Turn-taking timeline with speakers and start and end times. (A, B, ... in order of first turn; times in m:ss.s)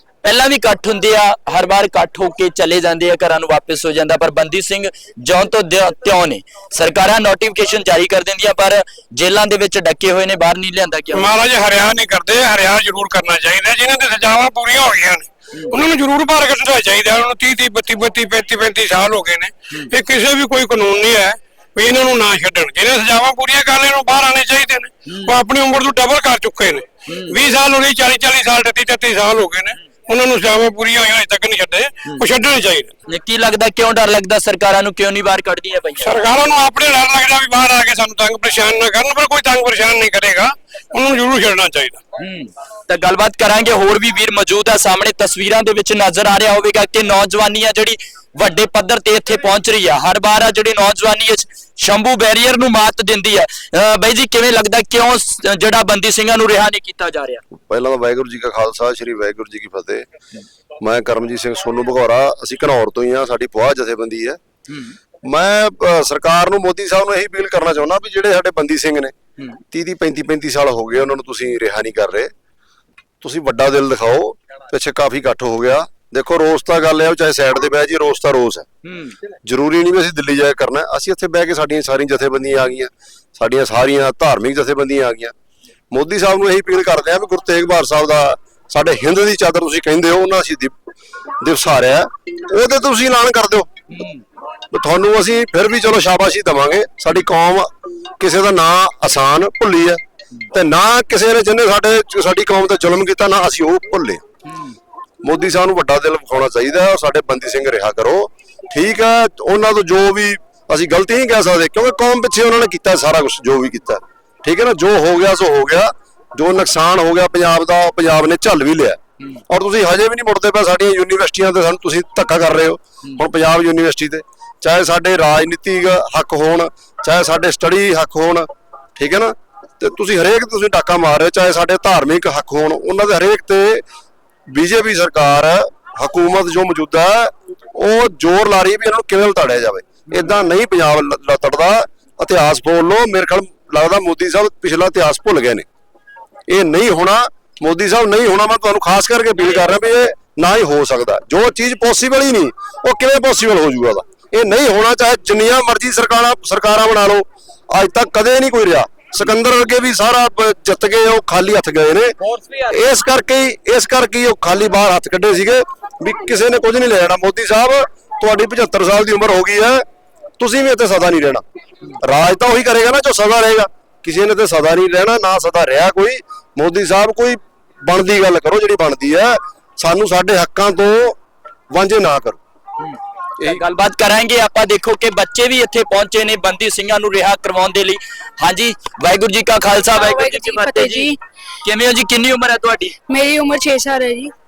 0:00.2-0:11.3 A
0:11.1-0:32.9 B
0:25.1-0:25.3 A
0:27.1-0:27.4 A
0:33.1-0:36.2 A
0:36.0-0:42.0 B
0:42.2-0:57.4 A
0:57.7-1:00.1 C
1:00.8-1:04.4 C
1:04.7-1:05.0 A
1:05.2-1:09.1 C
1:09.7-1:12.3 C
1:13.2-1:18.6 C
1:18.8-1:19.2 A
1:19.4-1:25.3 C
1:25.9-1:30.7 C
1:31.4-1:33.7 C
1:33.9-1:34.2 A
1:34.7-1:40.0 C
1:40.5-1:44.2 C
1:44.5-1:44.8 A
1:45.2-2:13.8 C
2:14.5-2:25.6 C
2:26.5-2:49.8 C
2:50.4-2:51.4 C
2:52.0-3:01.2 C
3:01.7-3:02.4 C
3:02.8-3:11.1 A
3:09.9-3:11.2 D
3:11.6-3:13.0 A
3:13.1-3:14.3 D